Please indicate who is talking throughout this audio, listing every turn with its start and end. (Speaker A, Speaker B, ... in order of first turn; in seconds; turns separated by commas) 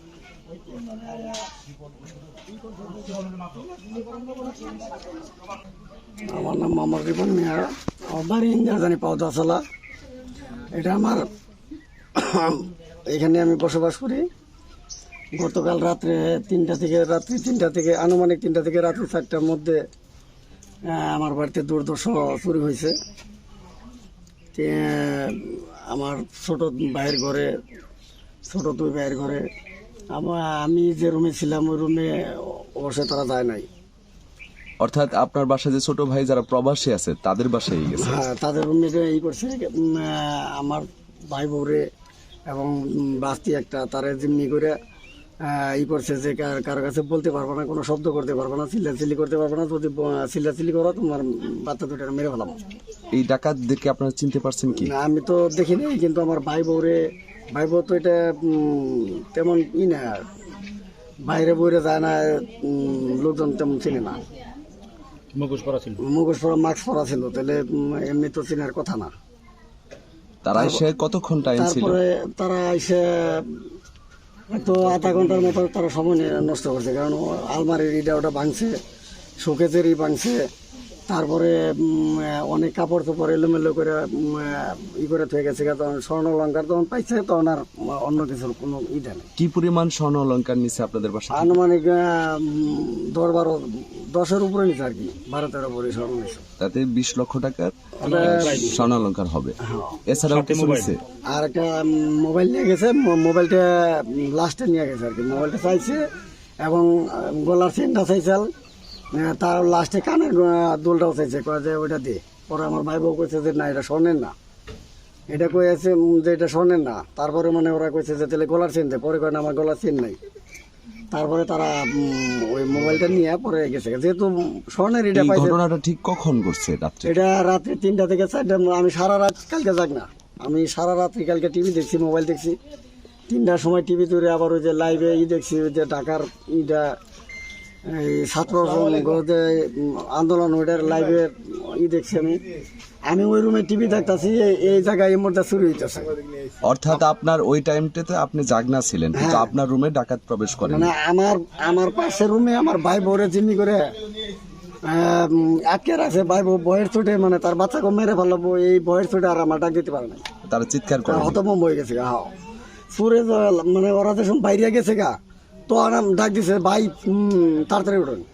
Speaker A: 0.6-1.4, Speaker A: 2.9-4.8, Speaker A: 6.3-9.6, Speaker A: 10.7-11.3, Speaker A: 12.2-14.3, Speaker A: 15.3-19.8, Speaker A: 20.9-22.9, Speaker A: 24.5-27.5, Speaker A: 28.5-29.4, Speaker A: 30.1-33.7, Speaker B: 34.8-38.2, Speaker A: 38.0-41.9, Speaker A: 42.5-44.8, Speaker A: 45.5-52.6, Speaker B: 53.1-54.9, Speaker A: 54.7-57.0, Speaker A: 57.5-60.2, Speaker A: 61.2-64.2, Speaker C: 65.3-66.0, Speaker A: 66.0-69.1, Speaker B: 70.4-72.0, Speaker A: 70.5-70.8, Speaker A: 71.5-73.4, Speaker A: 74.5-78.8, Speaker A: 79.4-80.4, Speaker A: 81.1-89.3, Speaker B: 89.4-91.6, Speaker A: 91.3-96.5, Speaker B: 96.6-101.0, Speaker A: 98.0-98.7, Speaker C: 98.0-98.8, Speaker A: 99.7-100.0, Speaker C: 100.3-101.0, Speaker A: 101.3-106.1, Speaker A: 106.6-108.5, Speaker A: 109.1-114.3, Speaker A: 115.3-120.2, Speaker A: 121.1-125.6, Speaker B: 125.1-127.1, Speaker A: 127.0-132.6, Speaker A: 133.3-136.9, Speaker A: 137.9-142.4, Speaker A: 143.1-146.2, Speaker B: 146.7-150.9, Speaker A: 149.1-149.5, Speaker A: 150.7-153.8, Speaker A: 154.9-160.2, Speaker B: 160.5-161.4, Speaker A: 161.1-162.3, Speaker A: 162.9-165.2, Speaker A: 165.7-168.2